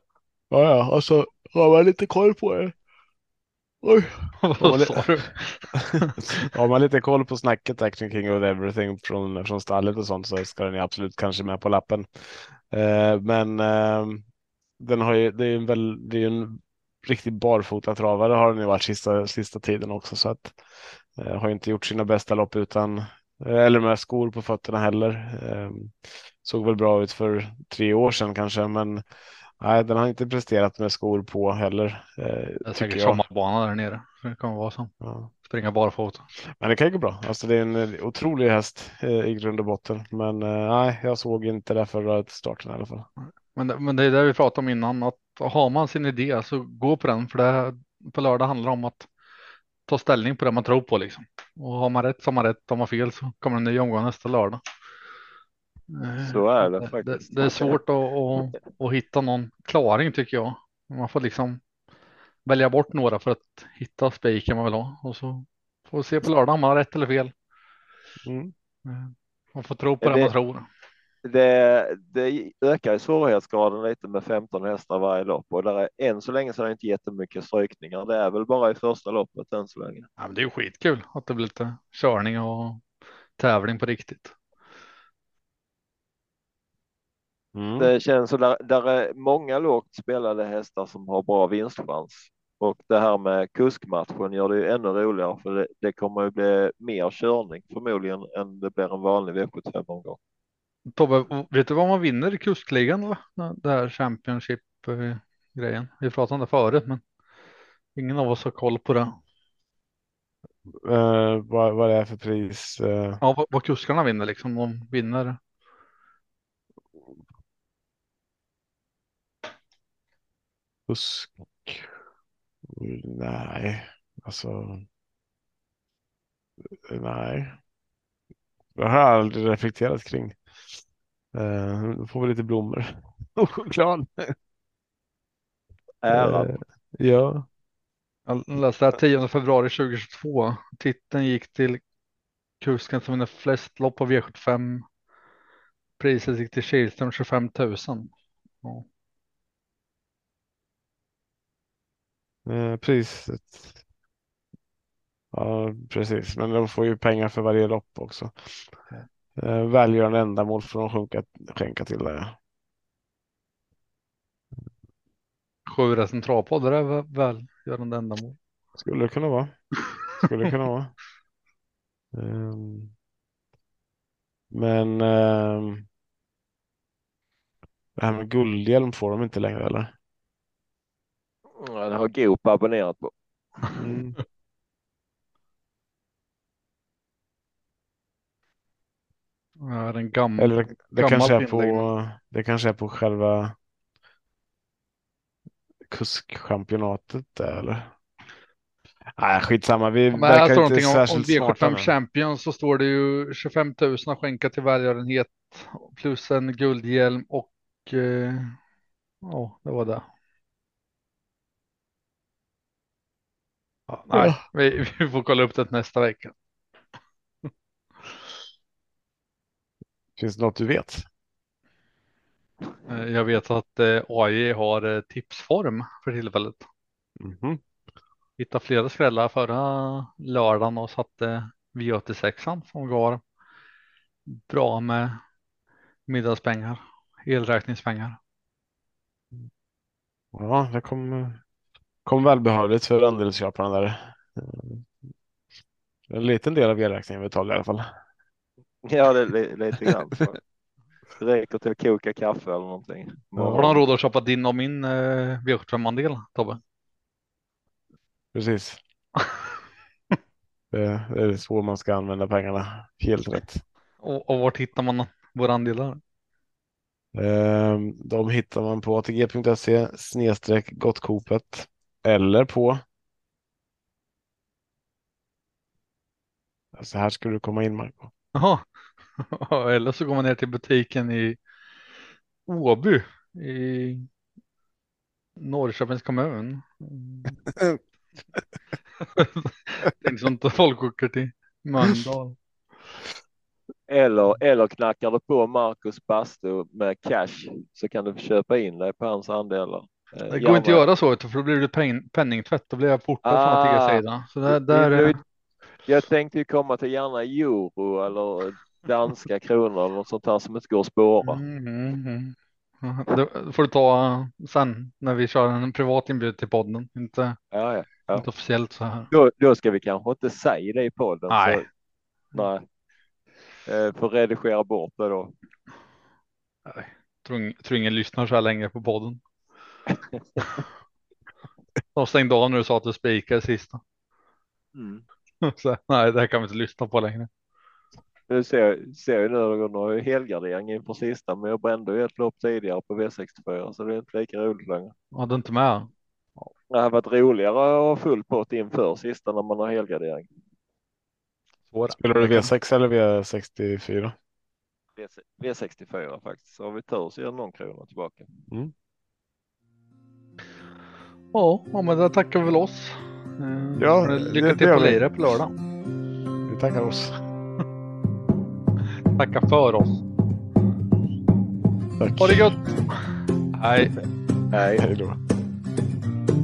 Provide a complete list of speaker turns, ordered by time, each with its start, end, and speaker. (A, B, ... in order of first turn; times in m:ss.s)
0:00.5-0:02.7 A
0:03.8-0:05.1 A
0:04.4-0:06.4 B
0:05.7-0:14.2 A
0:14.8-0:20.6 A
0:21.2-0:29.0 A
0:29.6-0:33.2 A
0:32.6-0:34.9 B
0:35.0-0:35.3 A
0:35.4-0:36.3 B
0:36.5-0:43.0 A
0:43.2-0:49.1 B
0:49.9-0:54.6 B
0:55.9-1:01.6 B
0:56.2-0:57.8 C
1:02.4-1:07.3 B
1:08.2-1:08.5 A
1:08.8-1:10.6 B
1:10.0-1:10.3 C
1:11.2-1:20.1 C
1:20.2-1:22.8 B
1:23.4-1:24.3 B
1:27.5-1:27.9 A
1:27.8-1:40.2 C
1:40.9-1:47.0 B
1:48.0-1:49.1 B
1:50.7-1:53.2 A
1:53.2-1:55.4 B
2:00.9-2:01.9 A
2:02.7-2:04.8 A
2:06.8-2:07.6 A
2:08.7-2:10.4 A
2:11.3-2:14.4 A
2:16.0-2:16.6 C
2:16.1-2:17.5 A
2:18.3-2:21.8 B
2:22.6-2:24.8 B
2:26.0-2:28.1 B
2:32.4-2:33.8 A
2:35.3-2:38.3 A
2:39.4-2:42.4 A
2:45.7-2:48.4 B
2:48.8-2:49.6 A
2:50.2-2:50.9 A
2:52.1-2:52.9 A
2:54.5-2:55.8 A
2:58.0-2:59.9 A
3:01.6-3:03.1 C
3:03.8-3:04.2 A
3:09.6-3:11.8 B
3:10.4-3:13.6 A
3:15.9-3:17.9 A
3:19.2-3:21.9 A
3:20.1-3:28.6 B
3:29.2-3:30.0 B
3:33.9-3:36.3 B
3:34.1-3:34.4 A
3:40.2-3:41.0 A
3:42.9-3:46.7 B
3:47.2-3:47.6 A
3:48.4-3:53.2 B
3:54.3-3:55.2 B
3:56.1-3:58.2 B
4:00.3-4:01.4 A
4:02.0-4:04.9 A
4:06.1-4:07.9 A
4:08.8-4:10.4 C
4:11.2-4:13.8 C
4:13.4-4:13.6 A
4:13.4-4:16.6 B
4:18.3-4:18.8 A
4:20.7-4:23.6 A
4:24.0-4:26.0 B
4:27.1-4:32.8 A
4:36.7-4:38.1 A
4:38.3-4:38.6 B
4:39.2-4:41.4 B
4:42.4-4:44.1 B
4:45.4-4:47.4 B
4:49.0-4:52.4 B
4:53.9-5:00.8 C
5:00.3-5:05.2 B
5:03.2-5:05.2 C
5:05.8-5:11.4 C
5:11.2-5:17.4 B
5:17.5-5:18.2 C
5:18.1-5:19.1 B
5:19.1-5:21.6 C
5:21.3-5:21.6 B
5:22.3-5:22.6 C
5:23.6-5:25.3 C
5:26.6-5:29.2 B
5:31.9-5:33.8 B
5:34.7-5:35.0 C
5:35.4-5:37.3 B
5:38.3-5:44.9 C
5:45.1-5:46.5 B
5:46.7-5:50.3 C
5:51.7-5:52.5 B
5:51.9-5:54.1 A
5:55.0-5:58.3 C
6:01.3-6:05.5 B
6:03.8-6:05.0 A
6:06.5-6:07.2 A
6:09.1-6:10.0 B
6:12.0-6:12.5 A
6:12.2-6:13.0 B
6:13.5-6:13.9 B
6:14.5-6:14.8 C
6:14.8-6:15.2 A